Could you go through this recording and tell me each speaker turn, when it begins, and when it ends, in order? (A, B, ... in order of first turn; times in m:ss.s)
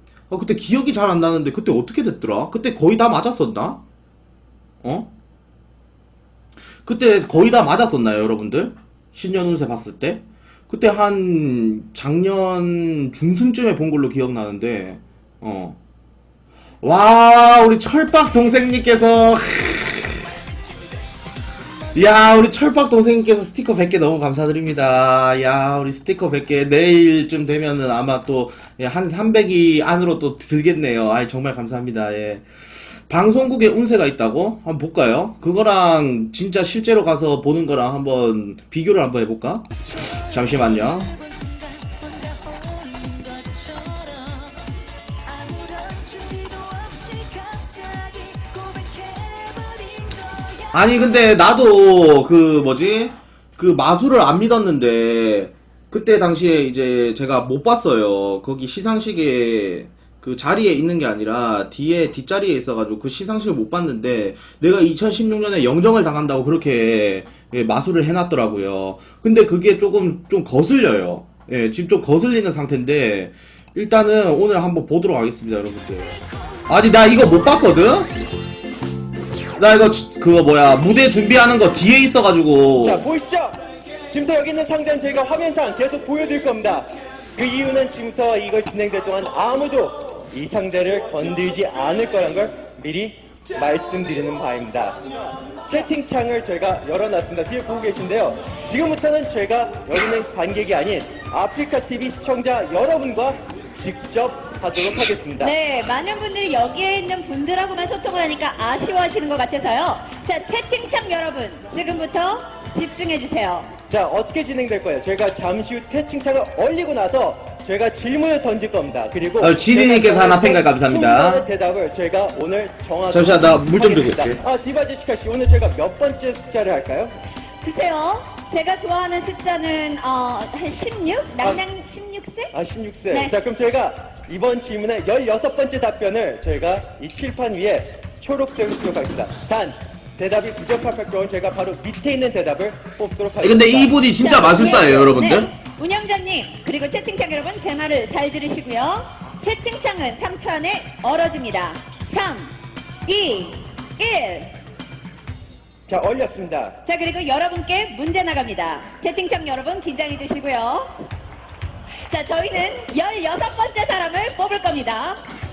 0:00.3-0:03.8 A
0:04.8-0:05.1 A
0:06.8-0:15.8 A
0:16.8-0:20.3 A
0:21.9-0:41.2 A
0:41.3-0:44.6 B
0:45.3-0:50.7 B
0:50.7-1:18.1 A
1:19.6-1:23.0 A
1:22.8-1:35.0 C
1:35.6-1:45.5 C
1:45.4-1:53.7 B
1:53.9-2:07.1 C
1:59.4-2:01.4 A
2:03.1-2:04.4 A
2:07.6-2:12.5 B
2:12.5-2:24.0 C
2:23.4-2:25.5 A
2:24.2-2:32.5 B
2:33.0-2:34.6 B
2:35.9-2:36.8 C
2:36.8-2:41.0 B
2:42.1-2:45.2 B